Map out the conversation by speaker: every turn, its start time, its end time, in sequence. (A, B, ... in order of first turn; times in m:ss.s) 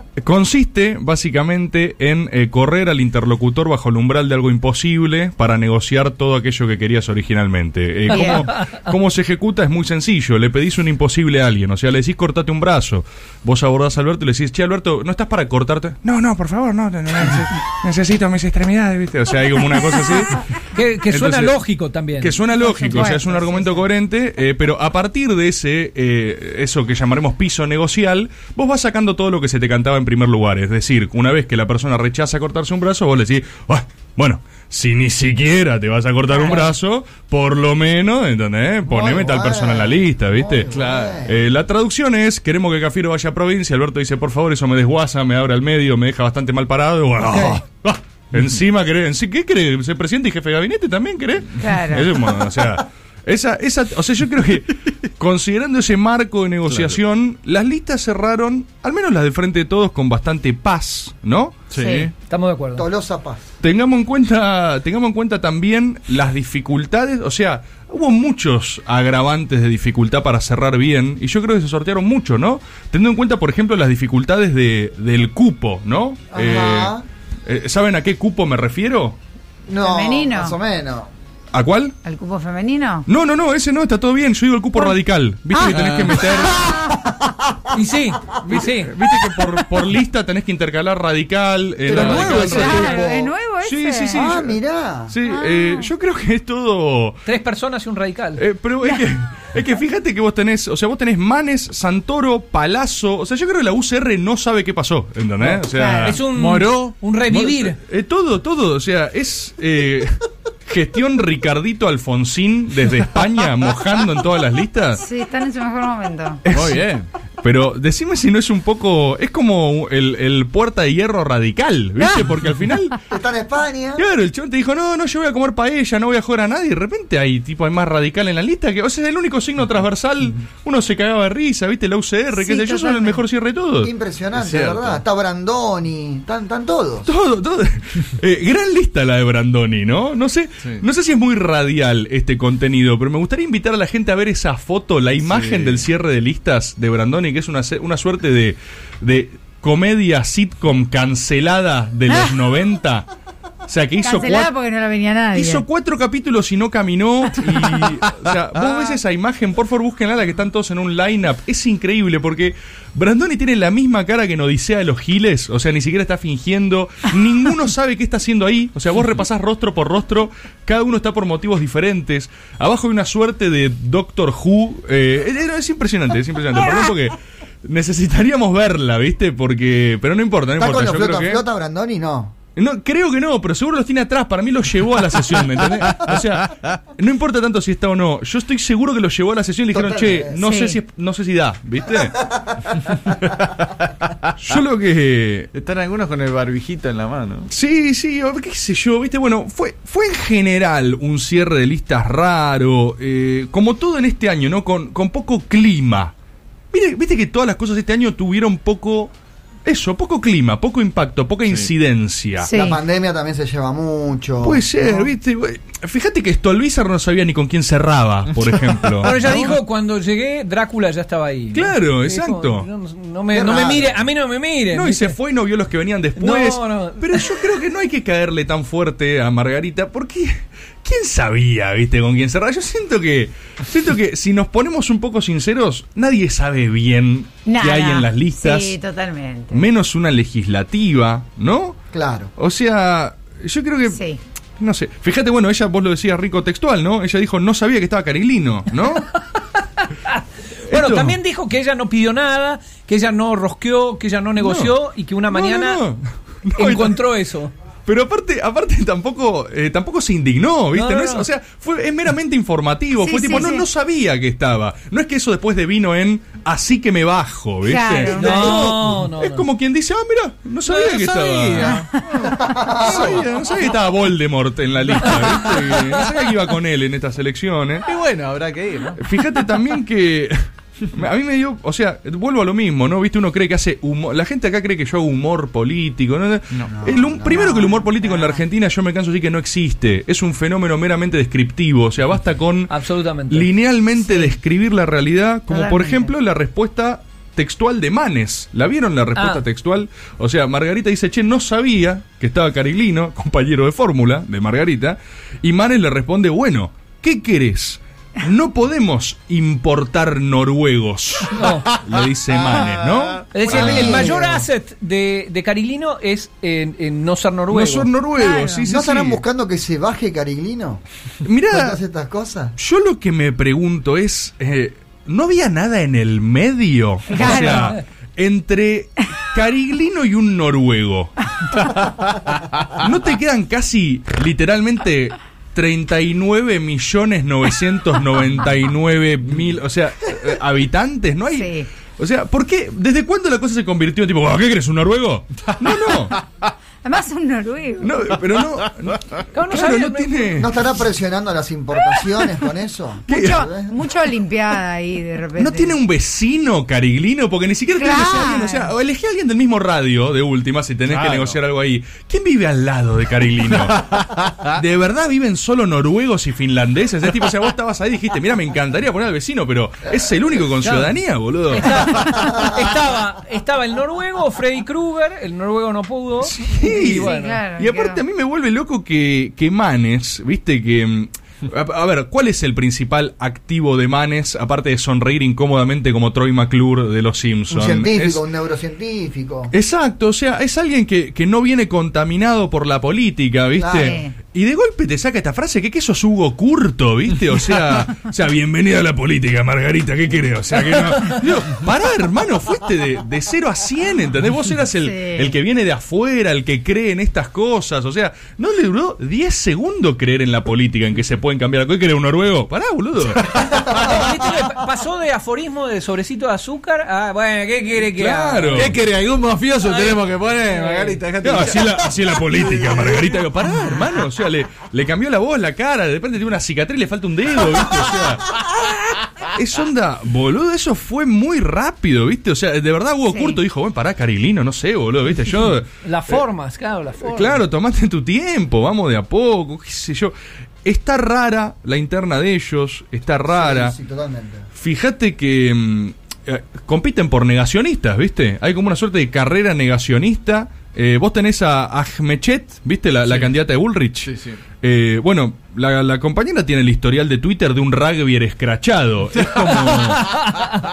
0:00.2-0:21.6 A
0:08.1-0:08.4 B
0:08.1-0:08.8 C
0:20.7-0:22.4 C
0:22.2-0:40.7 A
0:22.5-0:23.5 B
0:23.5-0:23.8 C
0:36.4-0:36.8 C
0:38.9-0:41.4 D
0:40.7-0:41.2 E
0:41.3-1:01.7 A
0:47.3-0:47.6 D
0:51.6-0:52.1 B
0:56.7-0:57.0 E
1:01.7-1:02.1 E
1:01.8-1:02.1 B
1:02.1-1:02.9 C
1:02.8-1:03.4 D
1:03.6-1:17.0 A
1:16.3-1:17.0 D
1:17.5-1:19.2 A
1:19.7-1:21.1 D
1:19.8-1:20.5 B
1:21.5-1:22.0 A
1:22.0-1:23.1 B
1:23.1-1:26.6 A
1:25.5-1:26.2 E
1:26.3-1:27.6 D
1:27.7-1:28.9 C
1:28.4-1:37.2 A
1:31.9-1:32.6 C
1:31.9-1:32.4 E
1:32.1-1:33.3 D
1:32.4-1:34.2 B
1:34.1-1:35.2 D
1:35.3-1:35.9 B
1:37.3-1:38.4 C
1:38.4-1:46.2 A
1:45.4-1:47.8 C
1:45.7-1:46.1 B
1:46.2-1:46.9 E
1:47.3-1:55.0 A
1:54.9-1:56.4 B
1:56.4-1:56.8 A
1:56.5-1:57.1 E
1:57.4-2:03.0 A
2:03.1-2:04.0 D
2:04.0-2:13.9 A
2:12.3-2:13.2 B
2:13.8-2:17.1 D
2:14.4-2:15.0 E
2:17.0-2:33.1 A
2:25.2-2:25.9 E
2:33.7-2:34.5 A
2:34.0-2:35.6 B
2:35.3-3:01.4 A
3:00.6-3:02.4 D
3:02.6-3:12.2 A
3:05.7-3:06.1 E
3:09.7-3:10.4 D
3:10.4-3:10.8 B
3:12.1-3:12.6 D
3:14.3-3:15.5 A
3:15.5-3:17.5 E
3:17.5-3:26.1 A
3:26.7-3:29.1 A
3:29.7-3:32.5 A
3:32.4-3:32.8 B
3:32.5-3:35.0 D
3:34.4-3:39.6 A
3:38.4-3:39.3 E
3:39.0-3:45.2 C
3:41.5-3:42.7 A
3:43.3-3:44.0 D
3:44.7-3:58.8 A
3:46.2-3:47.6 C
3:57.5-3:59.6 B
3:59.5-4:01.8 A
4:01.9-4:02.3 D
4:02.4-4:04.0 A
4:03.9-4:04.2 B
4:04.6-4:09.1 A
4:08.9-4:15.8 C
4:10.6-4:11.2 A
4:14.4-4:14.8 A
4:15.3-4:17.0 A
4:16.6-4:17.5 C
4:17.8-4:31.8 A
4:20.7-4:21.3 C
4:23.0-4:23.7 B
4:27.6-4:28.7 B
4:28.1-4:29.5 C
4:30.6-4:33.7 E
4:32.2-4:33.2 D
4:32.8-4:37.9 A
4:35.0-4:35.9 E
4:35.0-4:36.3 C
4:37.8-4:39.0 E
4:39.0-4:52.7 A
4:46.7-4:47.5 D
4:47.3-4:48.4 B
4:52.7-4:53.6 C
4:53.3-5:14.1 A
4:54.0-4:54.3 B
4:55.5-4:56.1 B
4:59.2-4:59.4 C
5:11.3-5:11.7 C
5:13.3-5:18.1 C
5:13.4-5:14.5 D
5:17.5-5:19.2 A
5:18.2-5:18.7 B
5:18.7-5:20.8 D
5:21.2-5:21.8 A
5:21.5-5:22.5 D
5:22.6-5:31.3 A
5:27.1-5:27.7 B
5:27.4-5:27.8 C
5:32.8-5:46.2 A
5:41.3-5:41.6 B
5:45.7-5:46.1 E
5:46.8-5:48.1 B
5:47.8-5:50.5 A
5:49.3-5:50.8 C
5:50.4-5:53.8 D
5:53.1-5:55.8 B
5:53.1-5:53.5 A
5:55.4-6:11.7 A
5:57.7-5:58.7 B
6:00.9-6:01.4 E
6:04.0-6:04.3 E
6:10.6-6:17.4 C
6:16.2-6:28.2 A
6:16.8-6:18.0 B
6:27.5-6:29.5 D
6:29.5-6:53.5 A
6:33.6-6:34.0 D
6:33.8-6:34.1 B
6:44.8-6:45.4 B
6:53.3-6:53.9 E
6:53.4-6:58.7 C
6:57.8-6:58.8 A
6:58.5-7:02.9 E
6:59.6-7:01.0 C
7:01.2-7:08.4 A
7:09.2-7:16.2 A
7:13.1-7:13.4 B
7:15.6-7:17.5 C
7:17.0-7:20.1 A
7:20.6-7:23.8 A
7:23.3-7:24.5 D
7:24.5-7:40.2 A
7:33.1-7:33.4 E
7:34.0-7:34.4 E
7:39.3-7:39.8 E
7:40.1-7:40.5 C